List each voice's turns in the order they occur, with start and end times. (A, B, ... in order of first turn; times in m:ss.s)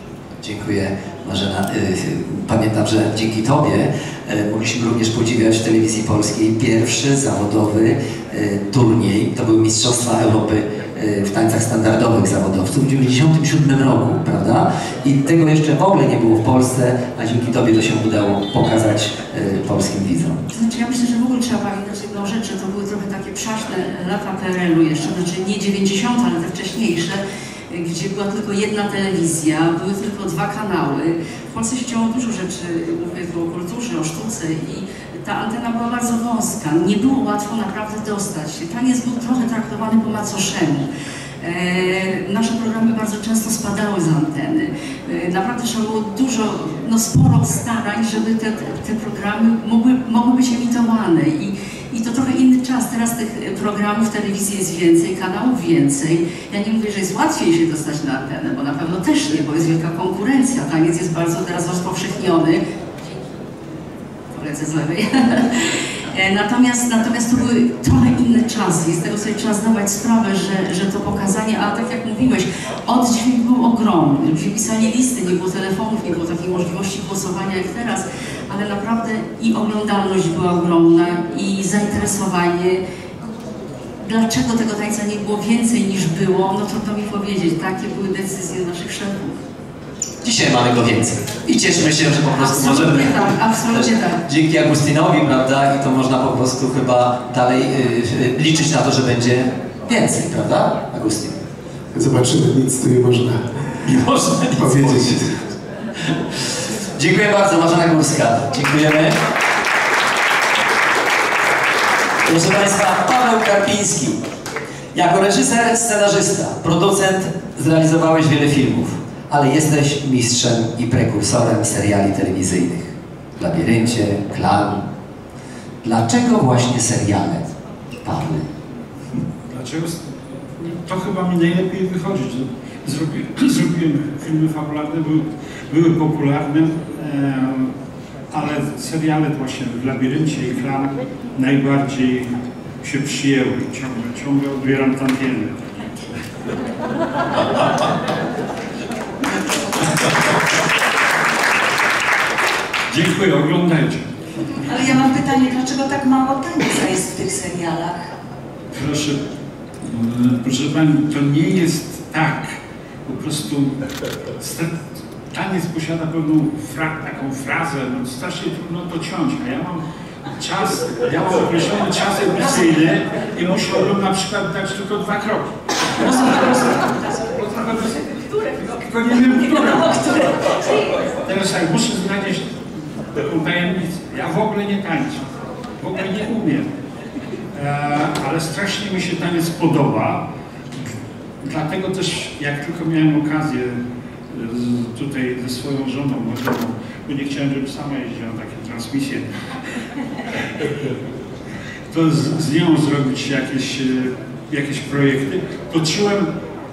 0:00.4-0:20.4 A
0:20.5-0:40.9 B
0:41.4-1:03.2 B
1:04.3-1:22.8 B
1:24.0-1:29.4 B
1:30.2-1:41.4 A
1:32.4-1:34.2 B
1:41.9-1:43.4 C
1:43.8-1:45.3 A
1:44.6-1:45.4 C
1:47.0-1:49.2 A
1:52.2-1:54.2 A
1:54.9-2:04.9 A
2:05.8-2:08.5 A
2:09.5-2:10.0 D
2:10.6-2:17.7 D
2:18.3-2:22.3 D
2:22.8-2:25.6 D
2:32.9-2:34.1 D
2:34.6-2:38.0 E
2:38.7-2:39.2 D
2:39.8-2:43.8 D
2:44.4-2:49.8 D
2:50.4-2:55.5 D
2:56.0-3:00.4 D
3:01.2-3:02.5 D
3:03.2-3:05.2 D
3:05.8-3:06.7 D
3:07.5-3:10.2 D
3:11.4-3:13.8 D
3:14.3-3:19.3 D
3:21.9-3:26.3 D